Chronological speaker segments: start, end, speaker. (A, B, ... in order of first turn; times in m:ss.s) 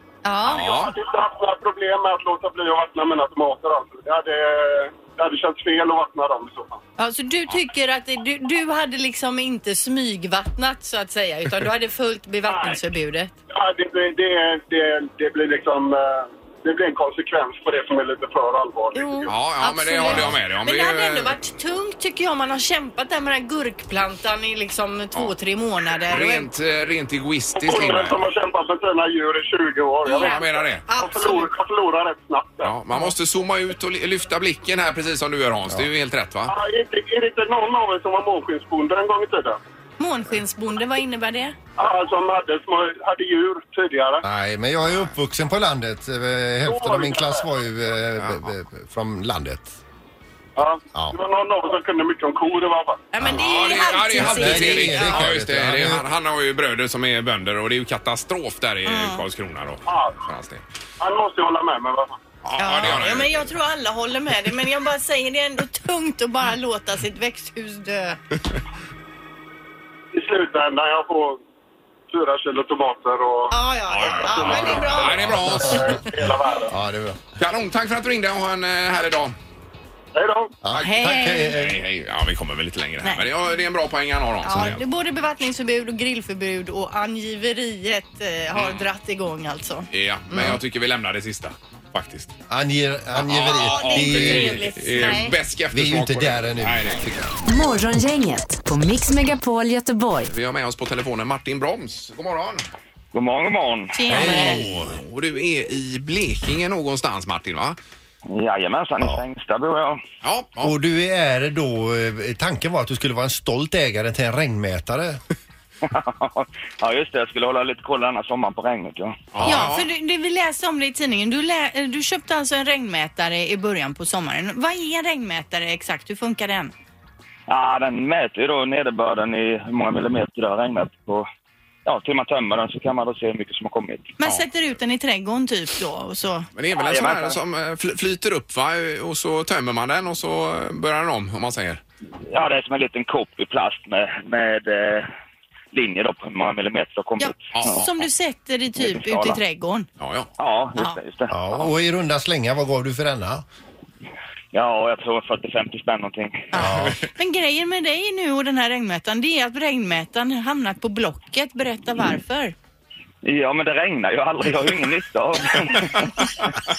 0:00.2-0:00.7 A
0:00.5-0:01.0 B
0:00.5-0:06.8 C
0:07.0-0:13.3 A
0:12.5-0:12.8 C
0:13.5-0:19.4 C
0:18.9-0:26.5 A
0:19.3-0:21.4 B
0:26.1-0:28.3 B
0:27.6-0:32.8 C
0:30.0-0:31.5 A
0:30.1-0:30.9 B
0:32.6-0:36.5 B
0:36.5-0:39.6 C
0:40.0-0:41.6 A
0:41.8-0:44.2 C
0:44.2-0:49.8 D
0:44.8-0:45.1 B
0:46.7-0:47.5 C
0:48.2-0:48.5 B
0:50.6-0:53.0 C
0:53.1-0:55.3 A
0:53.2-0:53.5 D
0:53.3-1:00.6 B
0:54.0-0:56.1 D
0:58.8-0:59.2 A
0:59.9-1:00.2 C
1:01.0-1:02.2 C
1:02.4-1:03.5 B
1:02.6-1:08.2 A
1:10.1-1:11.4 C
1:12.1-1:16.7 C
1:13.5-1:15.2 A
1:13.9-1:15.8 B
1:14.6-1:17.2 D
1:17.4-1:19.4 B
1:20.2-1:20.5 C
1:20.6-1:21.8 D
1:20.7-1:24.8 B
1:20.8-1:21.6 A
1:23.0-1:23.3 A
1:24.4-1:29.9 A
1:28.5-1:28.9 B
1:29.9-1:32.3 B
1:30.3-1:30.6 D
1:32.5-1:36.9 D
1:33.2-1:37.3 B
1:33.6-1:35.4 A
1:37.5-1:40.3 E
1:40.2-1:42.6 B
1:43.1-1:44.0 F
1:43.9-1:44.6 A
1:44.1-1:44.9 D
1:44.1-1:47.8 B
1:48.3-1:50.0 F
1:49.0-1:49.2 D
1:50.2-1:50.8 B
1:50.6-1:55.2 D
1:55.9-1:59.2 F
1:59.3-1:59.9 B
1:59.4-2:06.7 A
2:07.5-2:11.2 F
2:11.9-2:14.1 F
2:14.2-2:16.5 A
2:14.2-2:14.5 B
2:16.6-2:21.8 B
2:16.8-2:17.4 F
2:22.3-2:25.1 F
2:25.7-2:28.0 F
2:27.2-2:29.9 A
2:27.5-2:27.9 B
2:28.8-2:29.4 F
2:30.0-2:30.3 B
2:30.4-2:31.3 F
2:30.8-2:31.0 A
2:31.3-2:33.4 D
2:34.5-2:36.5 F
2:36.5-2:42.6 A
2:36.6-2:37.0 D
2:36.6-2:37.0 B
2:43.2-2:46.1 F